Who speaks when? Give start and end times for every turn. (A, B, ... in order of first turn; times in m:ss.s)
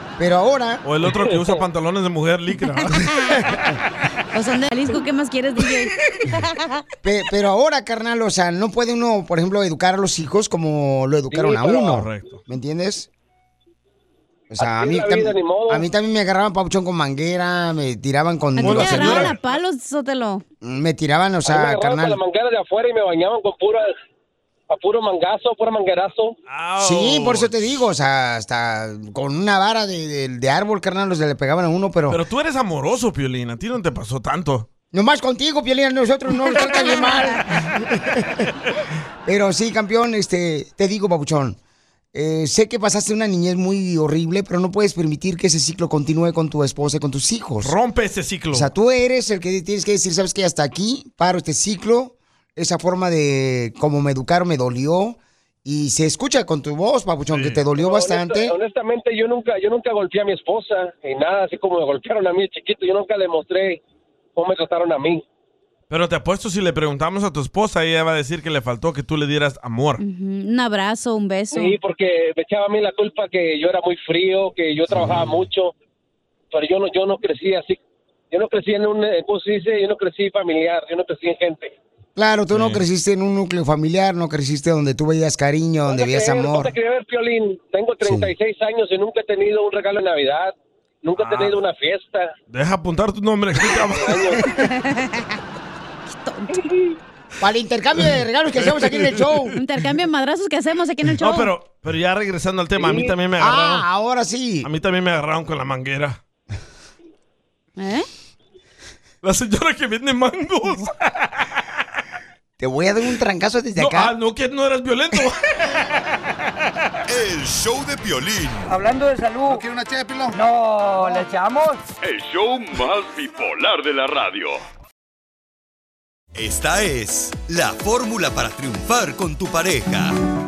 0:00.2-0:00.8 A
0:00.8-0:03.6 B
0:01.3-0:01.6 C
0:04.3-0:06.5 D
0:07.0-0:13.1 A
0:11.3-0:12.0 C
0:11.8-0:12.4 B
0:14.5-0:19.3 A
0:14.6-0:15.9 C
0:18.6-0:20.4 D
0:18.6-0:19.4 B
0:20.6-0:22.2 A
0:21.4-0:23.9 C
0:24.7-0:26.4 C
0:26.5-0:27.8 B
0:26.8-0:32.2 A
0:32.1-0:34.7 B
0:34.9-0:38.4 A
0:39.3-0:41.6 A
0:42.1-0:47.8 A
0:47.6-0:48.7 B
0:48.5-0:58.5 A
0:57.3-0:57.6 B
0:57.8-1:03.8 C
1:04.4-1:05.2 C
1:05.9-1:10.0 B
1:10.0-1:11.8 D
1:11.5-1:15.7 C
1:15.0-1:15.3 B
1:16.5-1:17.8 C
1:18.3-1:21.8 C
1:22.2-1:26.7 A
1:22.5-1:22.8 B
1:25.9-1:32.3 C
1:28.0-1:28.3 A
1:31.2-1:31.6 B
1:32.5-1:34.3 B
1:34.0-1:34.4 C
1:34.6-1:35.3 D
1:36.1-1:36.7 D
1:37.4-1:39.6 A
1:38.6-1:39.5 B
1:39.6-1:41.5 D
1:41.2-1:43.8 B
1:42.8-1:43.1 C
1:43.4-1:44.7 A
1:44.6-1:46.2 B
1:47.8-1:48.1 D
1:49.2-1:51.6 B
1:52.6-1:54.1 A
1:53.8-1:56.0 B
1:57.1-1:58.8 E
1:58.7-1:59.7 F
2:00.3-2:01.8 F
2:02.0-2:04.6 G
2:06.3-2:10.1 E